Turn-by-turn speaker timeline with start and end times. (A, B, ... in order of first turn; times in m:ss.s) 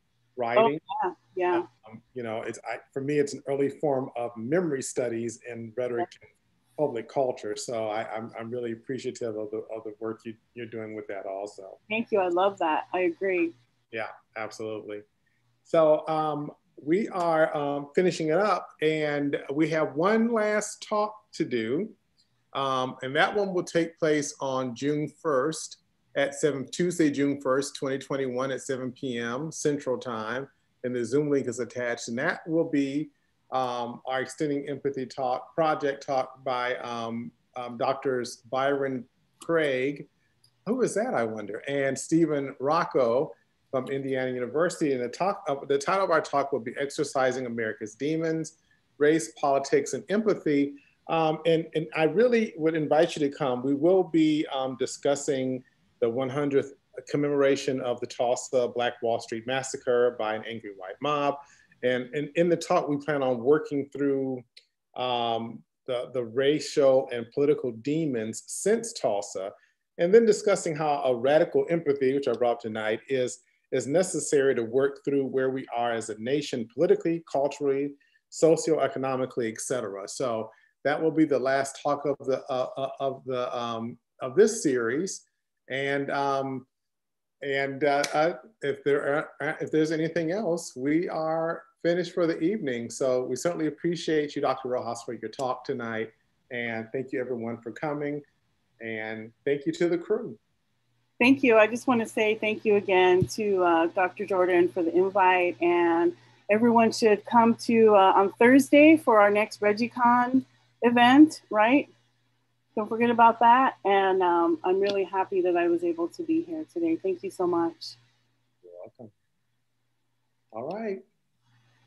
0:00.4-0:00.8 A
0:00.6-0:01.6 B
0:01.5-0:11.8 A
0:11.9-0:13.5 B
0:13.9-0:15.0 A
0:15.7-0:22.0 A
0:22.5-0:40.1 A
0:40.6-1:04.4 A
1:05.0-1:26.7 A
1:27.4-1:38.2 A
1:38.8-1:40.4 A
1:41.2-1:51.9 B
1:52.8-1:58.0 B
1:58.6-1:59.1 A
2:00.5-2:01.0 A